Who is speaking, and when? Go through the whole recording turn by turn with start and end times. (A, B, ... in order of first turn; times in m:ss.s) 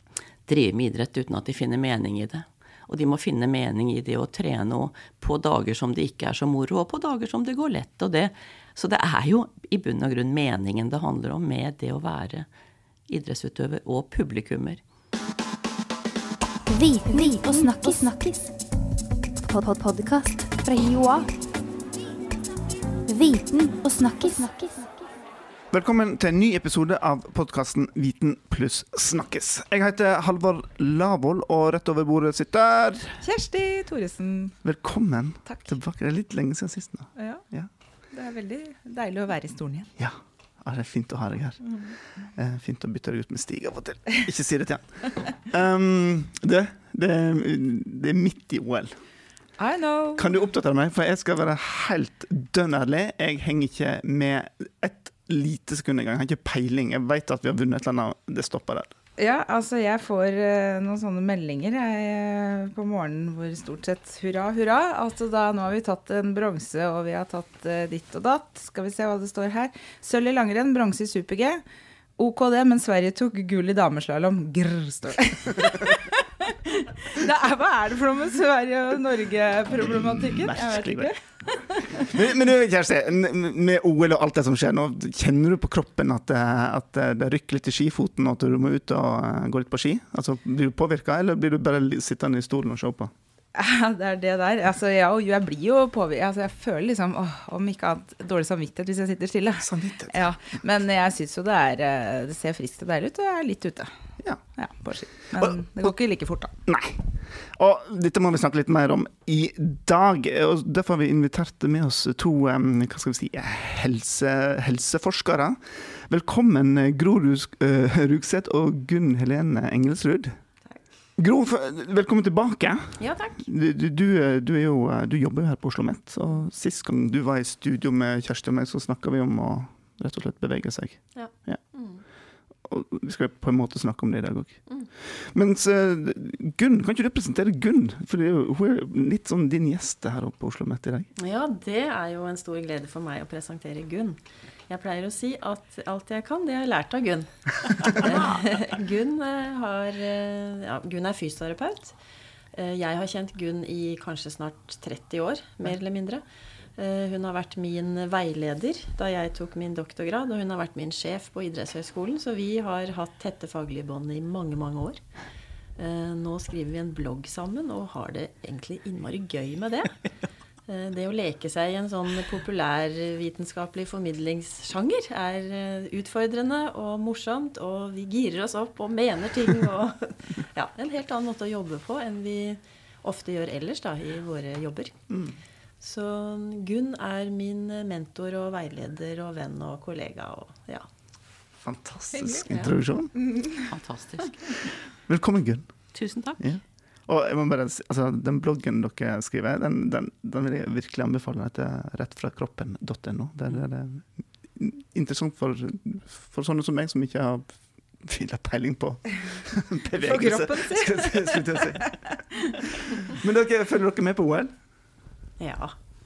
0:00.5-0:12.5 A
0:13.1-0:14.8 A
0:16.7-0:18.5 B
0:17.1-0:18.0 C
0:19.4-0:21.3 B
0:23.1-0:24.9 B
0:25.7-0:33.2 D
0:33.2-0:34.6 C
0:34.6-0:37.7 D
0:35.5-0:35.7 C
0:37.2-0:37.5 C
0:38.1-0:39.9 C
0:40.0-0:49.0 D
0:41.7-0:42.0 C
0:49.6-0:50.3 C
0:50.2-0:58.9 D
0:59.2-1:11.6 C
1:12.2-1:22.1 C
1:19.7-1:21.1 D
1:21.9-1:33.1 D
1:33.6-1:43.9 C
1:39.6-1:40.2 D
1:44.6-1:46.5 C
1:45.4-1:45.9 D
1:46.7-2:00.4 D
2:01.2-2:11.6 D
2:03.0-2:03.4 E
2:11.1-2:12.0 E
2:12.7-2:21.1 D
2:21.2-2:32.0 E
2:32.5-2:36.2 E
2:36.8-2:45.0 E
2:45.8-2:49.9 E
2:50.7-3:05.0 E
3:05.1-3:05.4 D
3:05.8-3:10.8 E
3:11.6-3:13.2 D
3:13.3-3:13.6 C
3:13.6-3:14.4 A
3:14.5-3:34.5 D
3:15.9-3:16.4 A
3:29.9-3:32.6 C
3:35.4-3:35.8 E